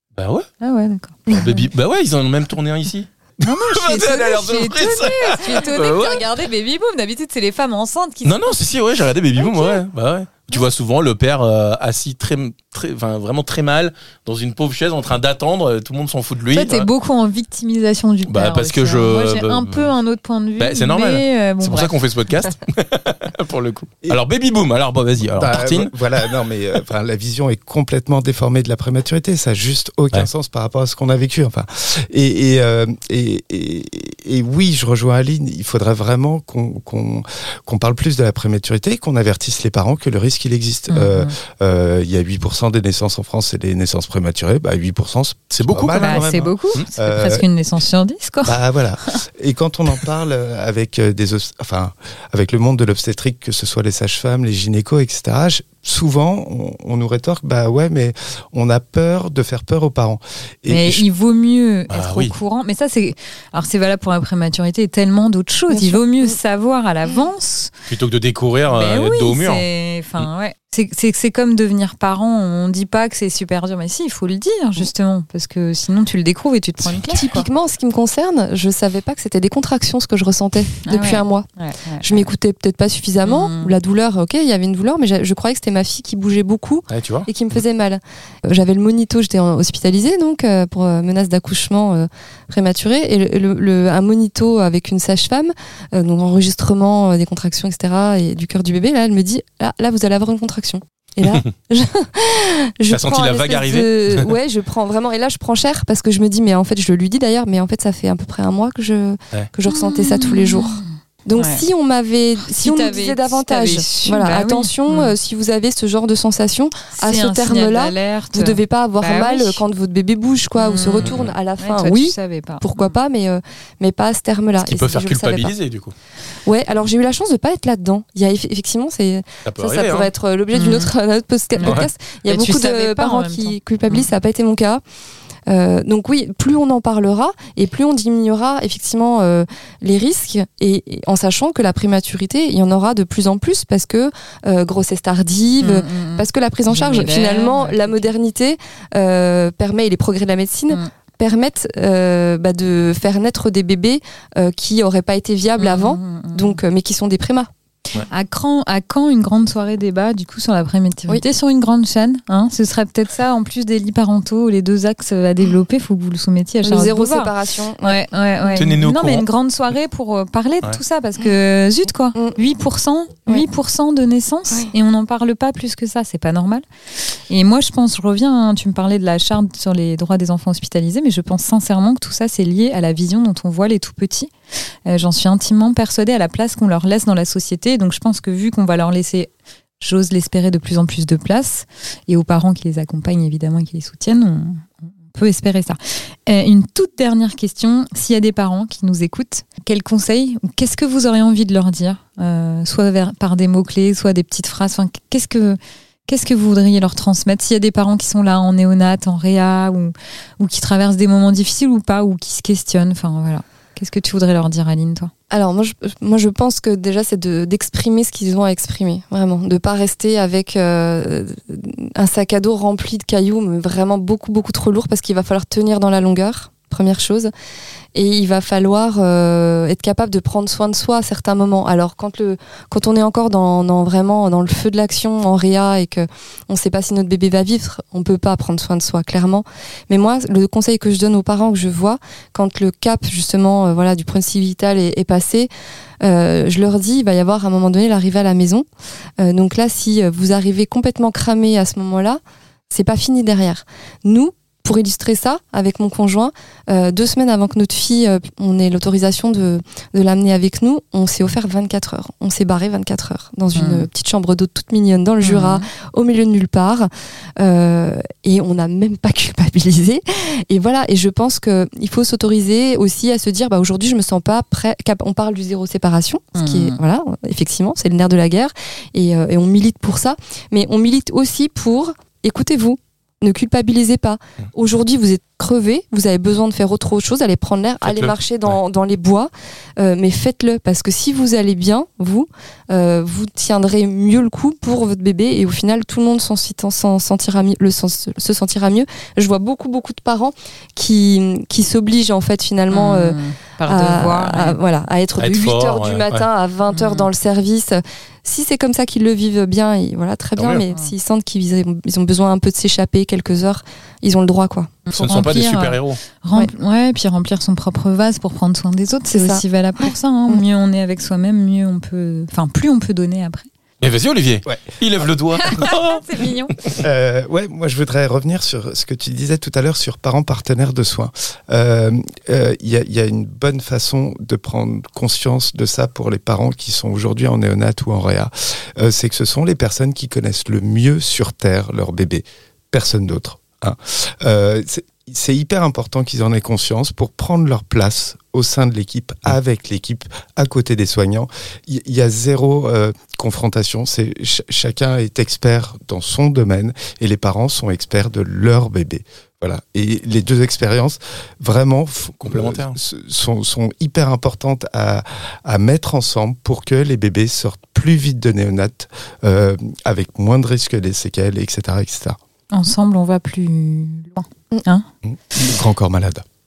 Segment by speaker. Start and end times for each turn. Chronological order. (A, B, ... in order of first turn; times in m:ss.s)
0:00.2-0:00.5 A
0:00.6-0:01.4 B
0:01.3-0:01.6 C
0:01.3-0:06.2 A
0:03.4-0:08.6 B
0:08.2-0:16.9 A
0:09.4-0:09.8 B
0:16.5-0:21.9 B
0:18.3-0:19.9 A
0:20.6-0:25.9 A
0:25.4-0:47.4 D
0:40.9-0:41.3 B
0:45.5-0:46.8 A
0:45.9-0:49.2 B
0:48.4-1:01.0 D
1:00.7-1:07.7 B
1:01.9-1:02.3 A
1:05.7-1:06.4 C
1:07.9-1:09.6 A
1:08.7-1:17.4 B
1:16.8-1:17.3 A
1:17.1-1:21.4 C
1:20.8-1:22.0 B
1:22.0-2:05.5 C
1:23.2-1:23.7 B
1:26.9-1:27.3 A
1:41.2-1:41.5 A
1:42.9-1:44.3 A
1:49.7-1:51.6 B
1:52.4-1:55.1 B
1:57.0-1:59.6 B
2:00.6-2:02.9 B
2:01.0-2:01.3 A
2:04.6-2:05.9 A
2:06.4-2:14.8 C
2:09.4-2:10.1 A
2:10.5-2:10.9 B
2:11.5-2:14.1 B
2:11.6-2:11.9 A
2:15.5-2:37.5 C
2:25.6-2:28.1 B
2:35.6-2:36.6 B
2:38.1-2:56.6 B
2:46.6-2:48.6 C
2:48.6-2:49.2 A
2:57.3-3:04.3 B
3:04.8-3:35.1 B
3:35.3-3:47.3 C
3:47.9-4:05.5 C
4:06.0-4:08.6 C
4:09.2-5:14.8 C
4:23.5-4:23.9 B
4:25.2-4:25.6 B
4:36.3-4:36.8 B
4:47.8-4:48.6 A
5:02.7-5:04.6 B
5:05.2-5:06.3 A
5:06.7-5:07.1 B
5:10.4-5:10.6 A
5:14.8-5:23.5 B
5:14.9-5:16.0 A
5:19.1-5:20.4 C
5:23.8-5:26.8 A
5:24.4-5:24.8 D
5:25.4-5:26.5 B
5:26.8-6:12.2 D
6:02.2-6:02.8 A
6:12.5-6:14.9 B
6:15.0-6:16.3 D